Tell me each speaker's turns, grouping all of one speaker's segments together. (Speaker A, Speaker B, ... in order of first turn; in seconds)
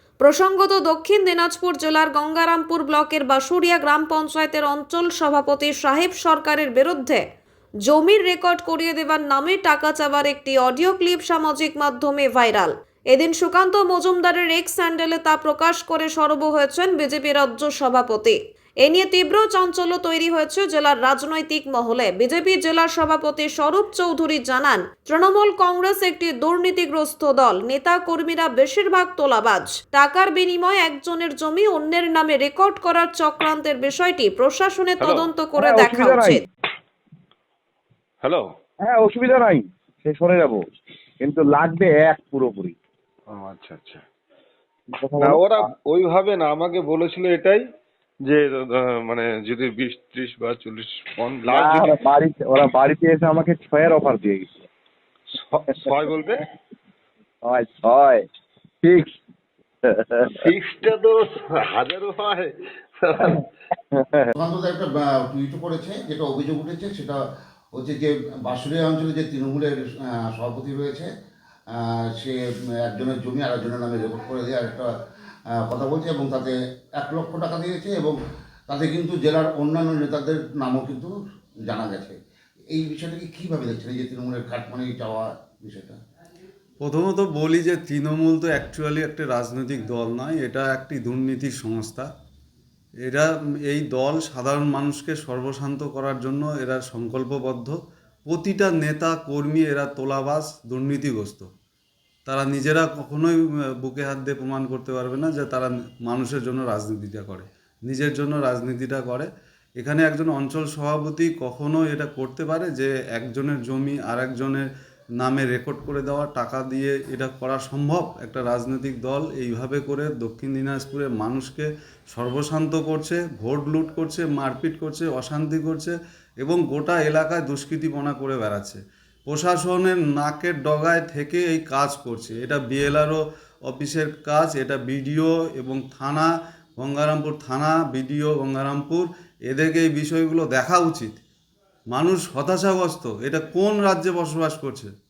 Speaker A: 0.2-7.2, 7.8-36.4
Speaker B: 35.0-35.3, 38.2-38.5, 43.3-44.0, 45.2-47.7, 48.2-51.9, 55.4-56.4, 60.4-63.4
Speaker C: 35.5-36.4, 38.8-40.6, 41.2-42.8, 44.9-45.7, 51.5-54.7, 55.7-56.0, 57.4-58.3, 58.8-59.1, 59.8-60.5, 63.2-64.3
Speaker D: 64.3-67.2, 67.7-71.1, 71.7-74.9, 75.5-78.2, 78.7-82.2, 82.7-86.0
Speaker E: 86.8-92.1, 93.0-101.5, 102.2-109.3, 109.8-114.7, 115.2-141.2, 141.9-144.9